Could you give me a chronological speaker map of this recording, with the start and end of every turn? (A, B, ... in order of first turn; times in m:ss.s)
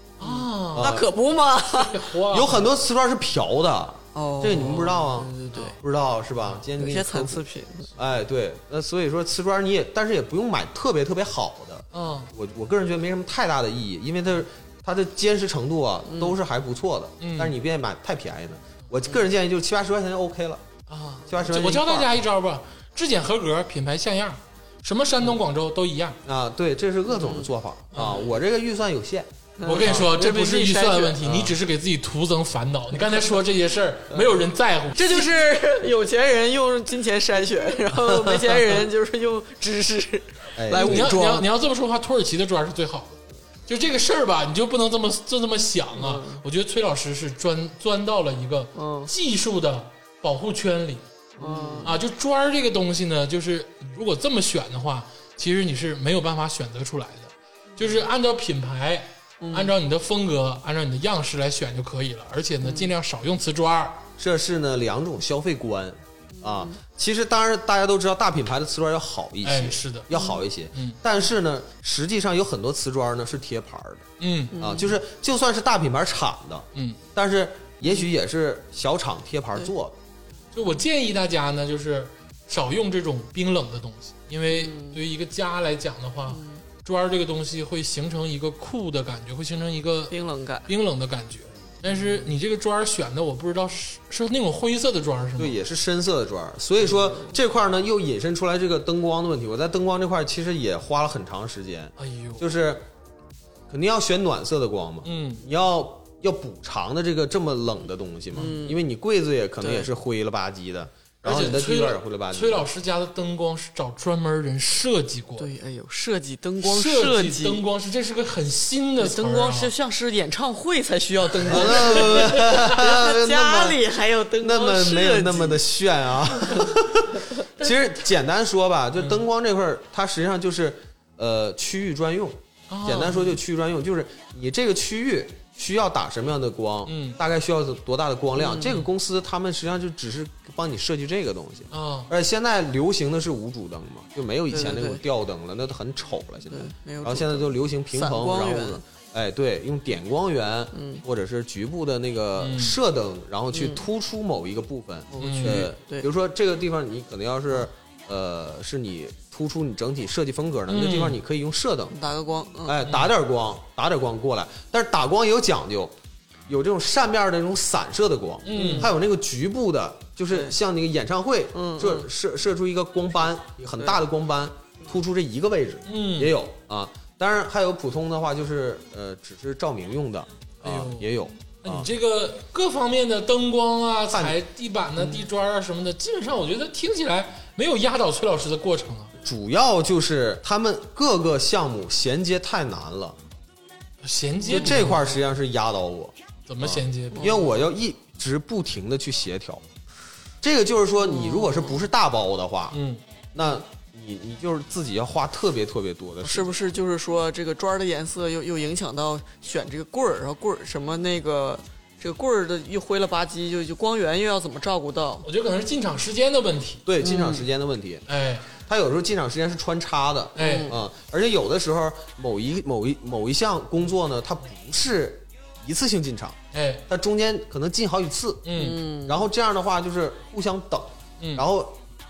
0:00.2-0:00.9 A
0:00.2-0:02.1 B
0:00.8-0:01.1 C
0:01.7-0:02.7 A
0:02.3-0:07.4 C
0:04.2-0:05.8 B
0:04.6-0:05.8 A
0:06.8-0:07.9 B
0:08.0-0:20.6 C
0:11.9-0:12.3 A
0:16.1-0:16.4 B
0:17.2-0:17.6 A
0:20.9-0:26.2 A
0:21.3-0:22.2 C
0:26.2-0:30.1 C
0:27.1-0:27.5 B
0:27.9-0:28.2 A
0:29.6-0:31.2 B
0:29.6-0:35.3 A
0:31.2-0:31.6 C
0:35.0-0:41.5 B
0:40.6-0:41.1 C
0:40.8-1:04.0 A
0:45.9-0:46.4 B
0:48.8-0:49.1 B
0:51.4-0:52.0 B
0:59.4-0:59.7 B
1:02.6-1:02.9 B
1:04.2-1:20.0 C
1:06.4-1:06.8 B
1:09.4-1:10.1 A
1:10.1-1:10.4 B
1:10.7-1:11.0 A
1:14.2-1:14.6 A
1:14.5-1:15.0 B
1:20.5-1:30.2 A
1:24.5-1:25.0 B
1:26.3-1:26.6 B
1:30.1-1:30.7 B
1:30.7-1:35.6 A
1:31.9-1:32.2 C
1:35.4-1:42.8 C
1:37.0-1:37.3 B
1:42.0-1:42.5 A
1:43.7-1:52.7 C
1:45.0-1:45.4 A
1:48.4-1:48.8 B
1:49.6-1:49.9 B
1:51.2-1:55.5 A
1:55.4-1:57.6 B
1:56.6-1:59.7 A
1:59.0-2:05.6 B
2:01.4-2:02.8 A
2:01.5-2:03.8 C
2:04.4-2:42.0 C
2:09.0-2:09.2 A
2:12.7-2:13.4 A
2:16.9-2:17.2 A
2:18.4-2:18.8 B
2:21.7-2:22.1 A
2:24.5-2:25.0 B
2:26.5-2:28.8 B
2:30.7-2:31.0 B
2:32.4-2:32.8 A
2:33.5-2:33.8 B
2:35.1-2:36.1 B
2:35.2-2:35.7 A
2:40.7-2:41.2 A
2:41.9-2:42.8 B
2:42.6-2:45.9 C
2:46.5-3:01.9 C
2:48.4-2:48.9 A
2:48.5-2:48.9 B
2:51.5-2:52.1 B
2:55.9-2:56.4 A
3:00.6-3:09.1 A
3:04.1-3:04.4 C
3:09.2-3:13.2 C
3:14.0-3:15.0 A
3:14.5-3:14.8 B
3:14.5-3:19.6 C
3:16.5-3:17.4 A
3:17.2-3:17.4 B
3:20.4-3:22.8 C
3:21.0-3:21.8 B
3:22.7-3:23.0 A
3:23.3-3:26.5 C
3:26.2-3:35.3 B
3:35.2-3:36.8 A
3:36.9-3:38.0 C
3:37.0-3:37.5 B
3:38.1-3:38.5 A
3:38.7-3:51.8 C
3:40.4-3:40.7 A
3:40.4-3:40.8 B
3:46.5-3:46.8 A
3:48.4-3:48.8 A
3:48.5-3:49.2 B
3:51.2-3:51.5 A